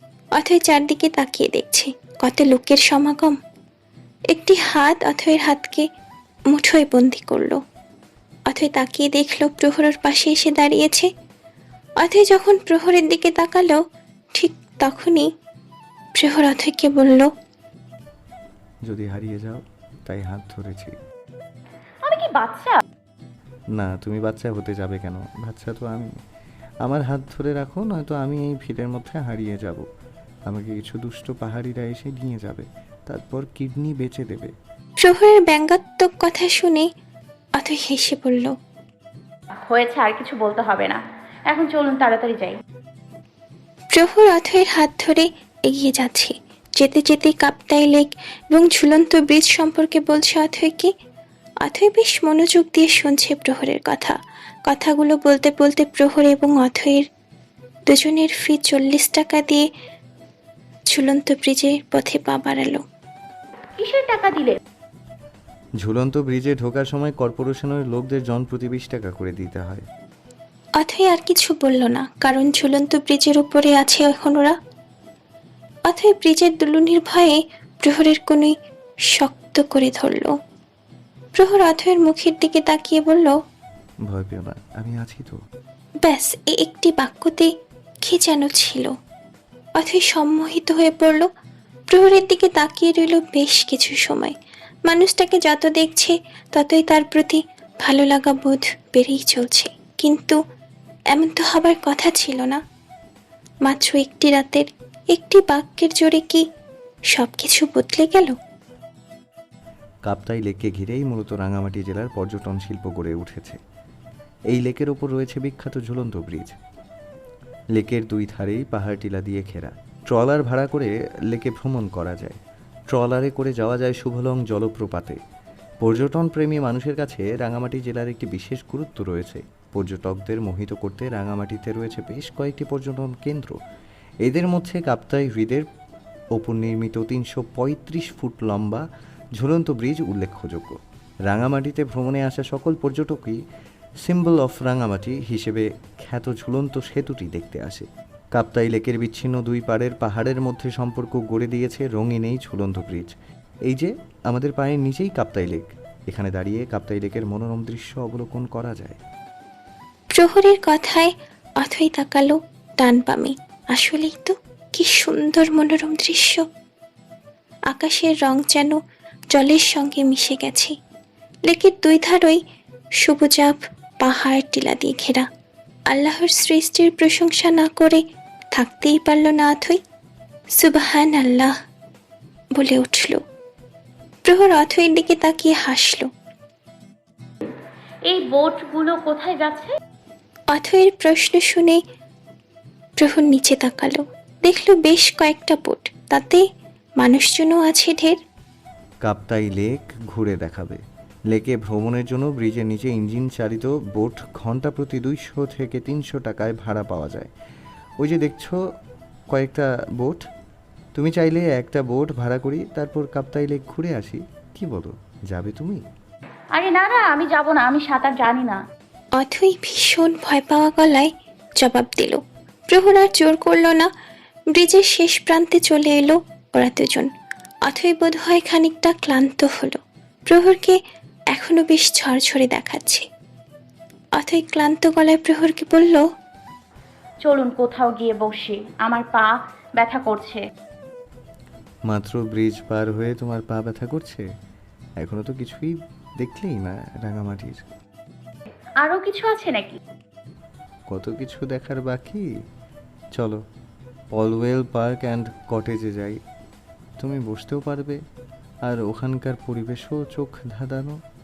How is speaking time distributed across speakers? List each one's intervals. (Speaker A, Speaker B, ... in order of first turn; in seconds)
Speaker A: 0.3-3.4, 4.3-5.8, 6.5-7.6, 8.5-11.1, 12.0-13.8, 14.3-15.3, 16.1-17.3, 35.0-36.9, 37.6-38.5, 43.9-50.9, 51.6-54.1, 54.7-57.0, 57.9-59.6, 60.9-62.8, 70.8-74.5, 75.9-78.5, 79.1-80.3, 81.3-83.3, 86.0-87.5, 88.0-88.9, 89.8-91.3, 91.9-94.3, 94.9-100.4, 101.1-102.6, 103.6-106.4, 107.1-108.3, 160.1-166.4, 167.7-168.8, 169.3-170.7, 171.5-172.4, 173.0-175.2, 175.9-178.0, 178.5-179.8, 180.5-181.5, 182.5-183.2, 184.2-186.1, 190.5-191.8, 193.0-196.4, 197.0-198.2, 219.2-223.9, 224.5-227.1, 227.7-230.8, 231.3-233.0, 234.2-236.0
Speaker B: 18.9-20.9, 23.7-26.1, 26.8-29.8, 30.5-34.5, 65.8-69.8, 84.1-85.3, 110.0-113.6, 114.5-116.6, 117.7-122.4, 122.9-125.2, 125.8-133.6, 134.2-135.7, 136.3-138.8, 139.4-143.4, 144.0-153.1, 153.7-159.0, 199.0-207.3, 208.0-208.6, 209.3-210.2, 210.9-215.8, 241.9-244.2, 245.0-247.6, 250.9-252.2, 253.1-253.4, 254.1-256.2, 257.0-258.0, 258.7-260.9
Speaker C: 22.0-22.8, 39.7-41.0, 41.5-42.6, 63.8-64.6, 188.1-189.7, 216.5-218.6, 237.2-240.4, 248.8-249.8